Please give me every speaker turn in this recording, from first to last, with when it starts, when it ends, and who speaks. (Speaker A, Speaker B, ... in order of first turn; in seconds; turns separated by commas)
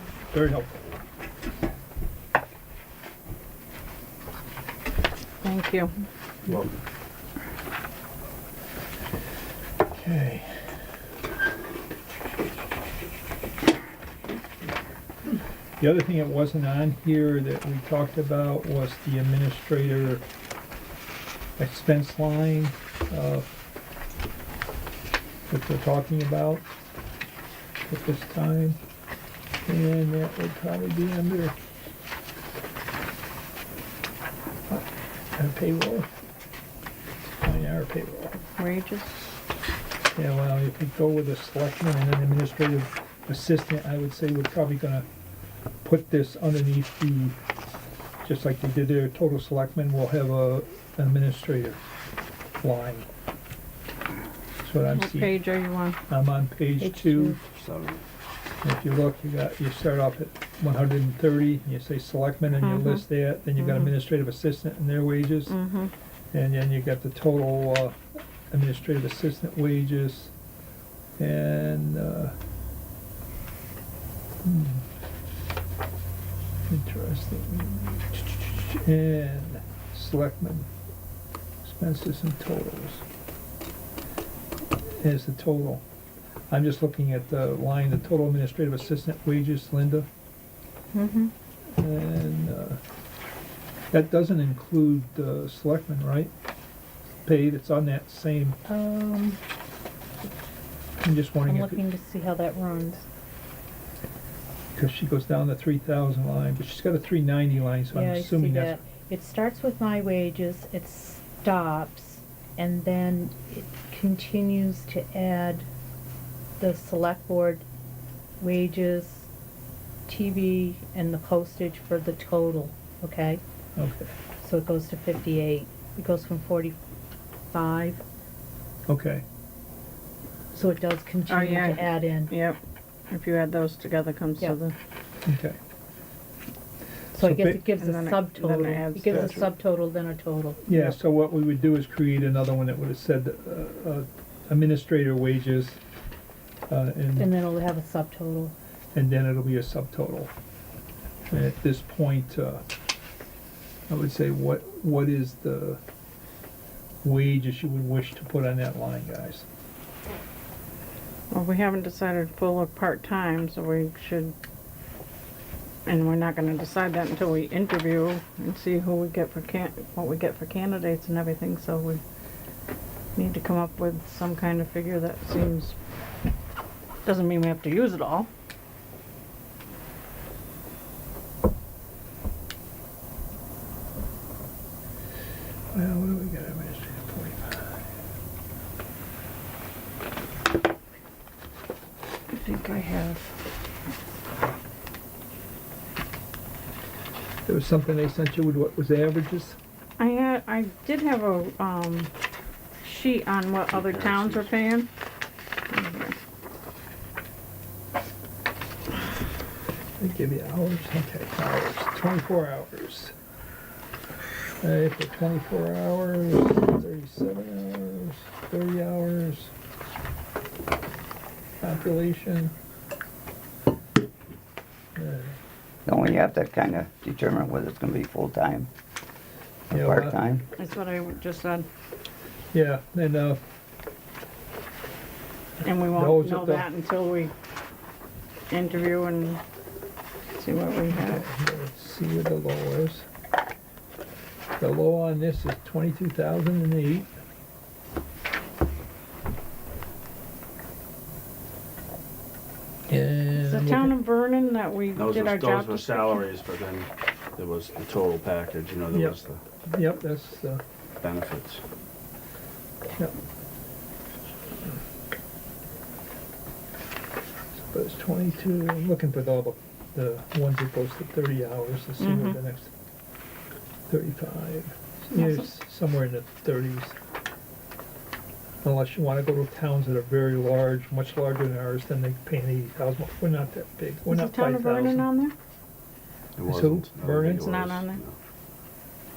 Speaker A: 0.3-0.9, Speaker B: 5.4-5.9, Speaker A: 9.9-10.7, Speaker A: 15.8-20.2, Speaker A: 21.6-23.5, Speaker A: 25.5-26.6, Speaker A: 27.8-28.8, Speaker A: 29.6-31.5, Speaker A: 34.7-36.1, Speaker A: 37.4-38.4, Speaker B: 38.6-39.4, Speaker A: 40.1-45.0, Speaker A: 45.8-47.4, Speaker A: 48.2-51.8, Speaker A: 52.6-53.1, Speaker A: 54.6-55.4, Speaker B: 54.9-56.0, Speaker A: 56.1-57.4, Speaker C: 56.8-57.4, Speaker D: 57.5-58.0, Speaker A: 58.6-65.5, Speaker B: 62.6-63.0, Speaker B: 63.5-63.9, Speaker B: 65.5-65.9, Speaker A: 66.3-68.0, Speaker A: 68.5-70.3, Speaker A: 71.2-72.3, Speaker A: 74.4-74.8, Speaker A: 76.7-80.7, Speaker A: 81.6-83.0, Speaker A: 84.9-85.8, Speaker A: 86.5-90.1, Speaker C: 90.9-91.3, Speaker A: 91.8-92.8, Speaker A: 93.9-96.3, Speaker A: 97.2-98.6, Speaker C: 98.7-99.4, Speaker A: 101.0-101.8, Speaker C: 101.5-103.0, Speaker A: 104.7-108.8, Speaker C: 107.9-115.7, Speaker C: 116.6-117.6, Speaker C: 118.4-119.3, Speaker C: 120.1-123.4, Speaker A: 123.8-124.1, Speaker C: 124.4-126.8, Speaker C: 127.5-128.0, Speaker A: 128.9-129.2, Speaker C: 130.5-132.3, Speaker B: 131.3-132.6, Speaker B: 133.1-134.7, Speaker A: 135.2-135.6, Speaker A: 137.1-137.7, Speaker C: 137.1-141.0, Speaker B: 137.8-139.5, Speaker A: 140.7-145.8, Speaker A: 146.7-147.3, Speaker C: 147.2-148.5, Speaker A: 148.9-150.3, Speaker A: 151.3-152.6, Speaker A: 153.9-155.8, Speaker A: 157.0-159.5, Speaker B: 161.3-164.3, Speaker B: 165.9-172.0, Speaker B: 173.2-175.8, Speaker B: 177.0-178.3, Speaker A: 185.7-187.8, Speaker B: 192.3-193.3, Speaker A: 197.4-199.6, Speaker B: 200.0-202.1, Speaker B: 202.8-204.9, Speaker D: 203.7-204.5, Speaker B: 205.7-206.2, Speaker A: 210.0-213.1, Speaker A: 214.6-219.5, Speaker A: 221.6-222.5, Speaker A: 224.9-225.4, Speaker E: 225.8-228.7, Speaker E: 229.7-230.4, Speaker A: 229.7-230.2, Speaker B: 230.6-231.7, Speaker A: 232.5-233.4, Speaker B: 235.6-237.3, Speaker A: 235.9-236.7, Speaker B: 238.5-239.4, Speaker B: 240.3-241.2, Speaker A: 240.9-243.1, Speaker A: 244.6-247.1, Speaker A: 252.9-253.9, Speaker B: 253.4-256.2, Speaker D: 254.9-259.4, Speaker A: 258.9-260.6, Speaker D: 261.0-261.6, Speaker A: 267.5-272.7, Speaker B: 272.0-272.4, Speaker A: 273.9-277.0, Speaker B: 275.1-275.5, Speaker A: 278.6-285.1, Speaker B: 284.1-285.3, Speaker D: 286.4-288.1, Speaker A: 286.4-287.6, Speaker B: 287.4-288.0